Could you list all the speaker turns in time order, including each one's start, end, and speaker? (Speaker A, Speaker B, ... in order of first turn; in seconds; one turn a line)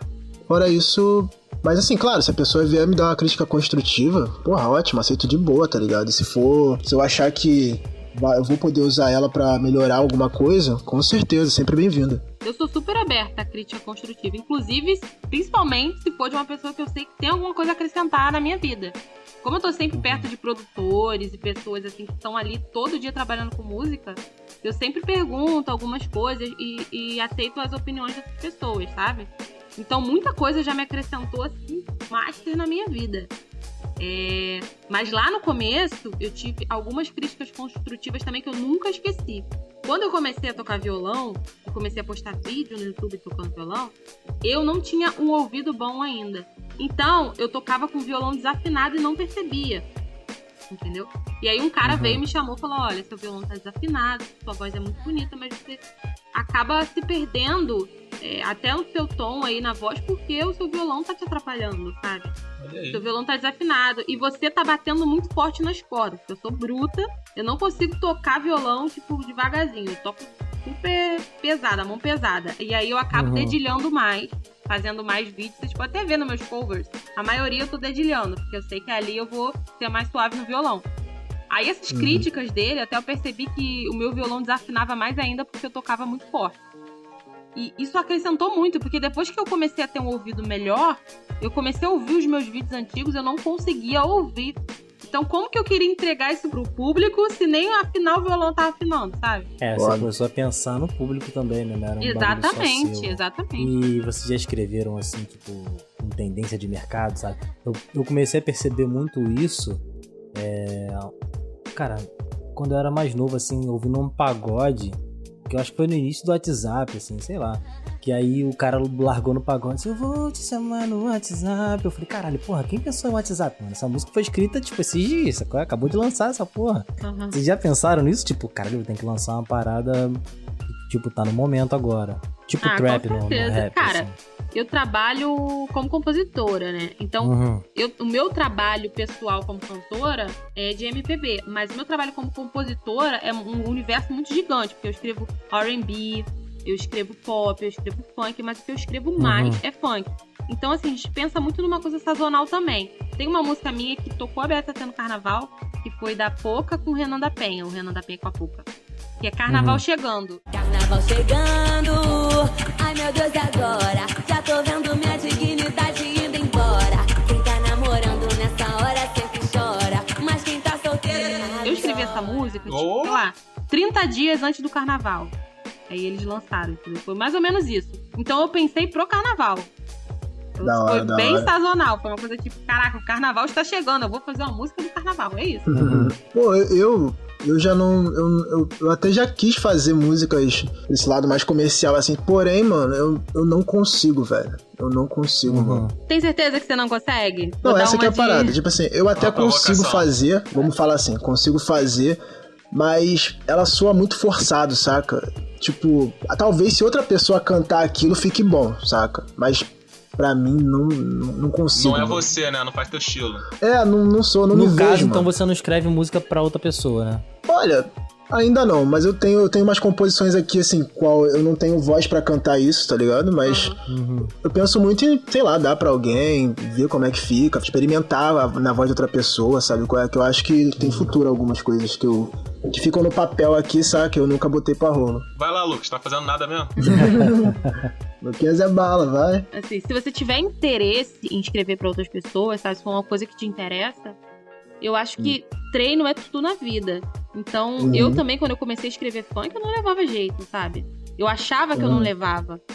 Speaker A: 0.5-12.2
Speaker B: 12.4-33.3
Speaker C: 19.9-20.3
Speaker B: 34.0-49.8
Speaker B: 50.7-55.8
Speaker C: 51.8-52.2
Speaker B: 56.3-62.3
Speaker D: 62.6-63.0
Speaker B: 62.9-80.8
Speaker C: 73.1-73.6
Speaker B: 81.5-86.6
Speaker A: 81.9-82.2
Speaker B: 87.5-99.5
Speaker C: 99.6-109.8
Speaker A: 99.8-100.1
Speaker B: 102.0-103.7
Speaker C: 110.3-111.1
Speaker C: 111.7-134.2
Speaker B: 127.0-127.4
Speaker B: 132.6-158.7
Speaker C: 137.2-137.6
Speaker C: 149.2-149.6
Speaker B: 159.2-160.4
Speaker C: 159.5-159.8
Speaker E: 160.5-172.6
Speaker B: 171.6-175.3
Speaker D: 172.7-173.3
Speaker B: 175.9-179.7
Speaker B: 180.6-185.7
Speaker A: 180.6-181.5
Speaker A: 185.7-195.9
Speaker C: 185.7-186.1
Speaker C: 195.4-195.9
Speaker B: 196.1-198.6
Speaker A: 197.6-202.2
Speaker D: 199.2-200.1
Speaker A: 202.7-212.2
Speaker D: 211.7-213.5
Speaker A: 213.6-215.3
Speaker C: 214.5-217.2
Speaker A: 217.5-223.7
Speaker B: 223.4-223.8
Speaker C: 223.9-224.3
Speaker A: 224.4-235.3
Speaker C: 230.8-231.1
Speaker D: 235.3-236.7
Speaker A: 236.8-239.5
Speaker C: 236.8-237.9
Speaker B: 239.5-244.2
Speaker B: 244.8-252.6
Speaker A: 247.8-248.2
Speaker A: 251.7-252.1